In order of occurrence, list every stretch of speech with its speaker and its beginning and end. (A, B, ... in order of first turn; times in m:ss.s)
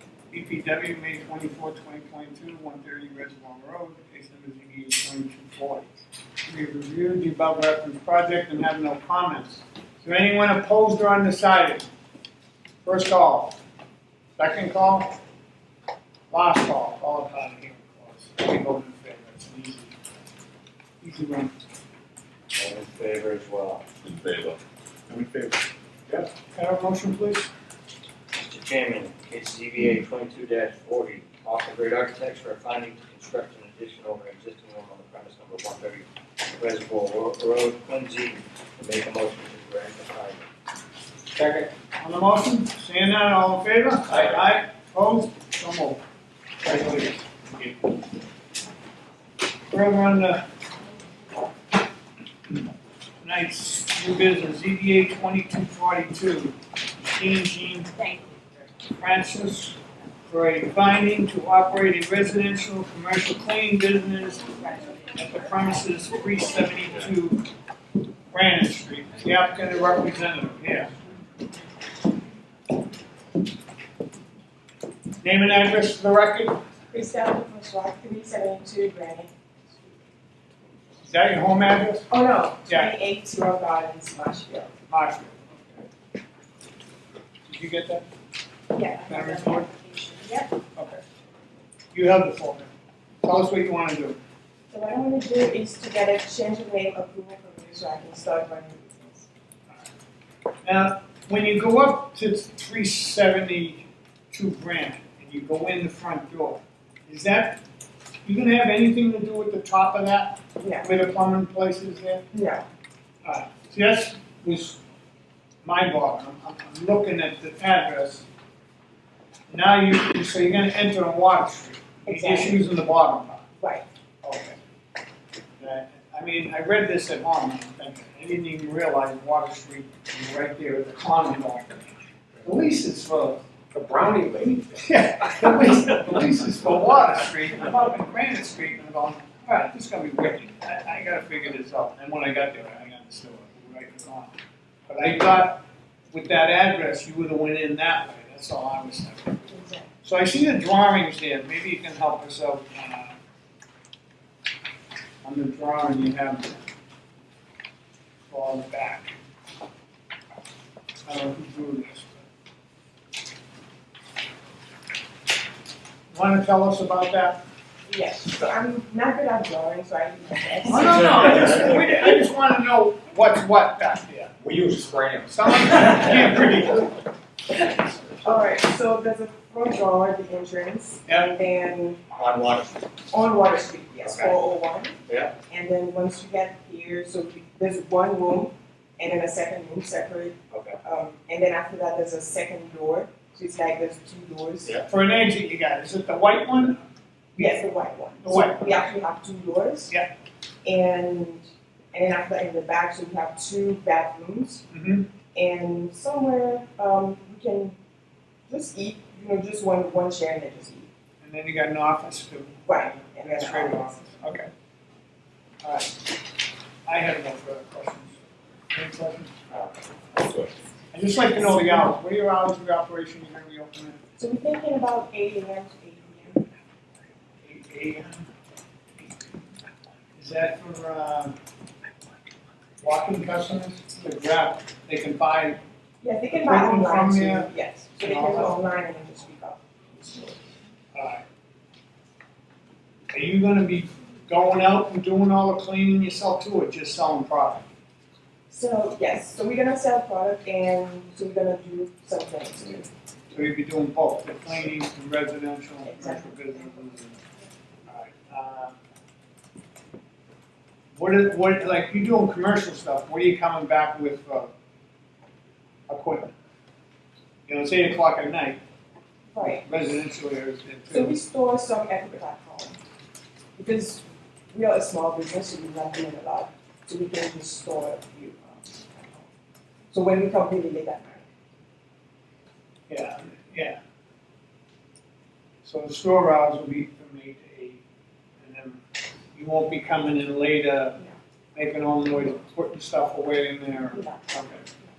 0:00.3-0:05.9 A
0:06.4-0:11.9 A
0:12.8-0:13.6 A
0:14.4-0:15.2 A
0:16.3-0:20.0 A
0:21.0-0:21.5 A
0:22.6-0:23.8 B
0:24.0-0:24.6 C
0:25.1-0:25.6 C
0:26.4-0:27.5 A
0:28.4-0:36.0 B
0:36.6-0:40.5 B
0:41.4-0:46.0 A
0:46.6-0:47.2 A
0:49.7-0:50.4 A
0:53.2-0:57.9 A
0:58.9-1:07.4 A
1:08.3-1:10.9 A
1:15.2-1:16.6 A
1:16.9-1:19.3 D
1:21.0-1:22.1 A
1:22.1-1:24.7 D
1:22.7-1:22.9 A
1:24.9-1:25.8 A
1:27.5-1:28.0 A
1:28.7-1:30.5 D
1:28.9-1:29.7 A
1:30.8-1:31.0 A
1:31.9-1:32.7 A
1:33.2-1:34.2 A
1:34.7-1:39.3 D
1:40.6-1:47.6 A
1:48.2-1:52.2 A
1:50.6-1:50.9 D
1:52.3-1:52.6 D
1:53.2-1:54.8 A
1:55.6-1:58.3 A
1:59.5-2:03.4 A
2:02.1-2:02.7 D
2:03.6-2:03.9 D
2:04.2-2:04.6 A
2:05.6-2:11.8 A
2:12.4-2:13.4 A
2:13.7-2:14.7 C
2:14.8-2:24.3 A
2:24.9-2:29.4 A
2:29.5-2:29.9 D
2:30.0-2:33.2 A
2:35.2-2:36.6 A
2:38.3-2:39.1 A
2:41.1-2:42.2 A
2:46.1-2:47.4 A
2:47.9-2:52.2 D
2:50.7-2:54.3 A
2:54.4-2:56.3 C
2:55.3-2:57.0 A
2:58.2-3:02.0 D
3:01.1-3:01.4 A
3:02.1-3:02.8 B
3:03.1-3:14.8 D
3:04.0-3:04.4 B
3:05.1-3:05.3 B
3:10.5-3:10.8 B
3:14.9-3:16.8 A
3:17.4-3:17.6 A
3:17.4-3:19.9 D
3:18.2-3:18.8 A
3:20.6-3:24.6 D
3:24.7-3:25.1 A
3:25.4-3:27.8 D
3:28.5-3:30.9 D
3:31.2-3:34.5 A
3:32.7-3:34.1 D
3:35.6-3:36.1 A
3:36.9-3:39.4 A
3:39.5-3:40.5 B
3:40.9-3:44.0 A
3:41.4-3:41.7 D
3:44.2-3:46.4 D
3:47.4-3:48.3 A
3:50.2-3:51.3 A
3:52.8-3:55.6 A
3:56.0-4:00.4 D
3:56.3-3:58.6 A
4:00.9-4:01.2 A
4:03.1-4:07.6 A
4:08.5-4:12.9 D
4:13.3-4:17.2 A
4:15.8-4:16.9 D
4:17.9-4:18.8 A
4:21.0-4:24.5 A
4:25.9-4:26.3 A
4:27.5-4:28.6 A
4:29.3-4:29.7 D
4:29.6-4:31.2 A
4:30.9-4:32.8 D
4:33.6-4:39.3 D
4:39.9-4:41.3 D
4:42.9-4:43.8 A
4:45.6-4:47.8 A
4:48.4-4:48.8 A
4:49.3-4:51.0 A
4:51.6-4:54.6 A
4:53.9-4:54.3 D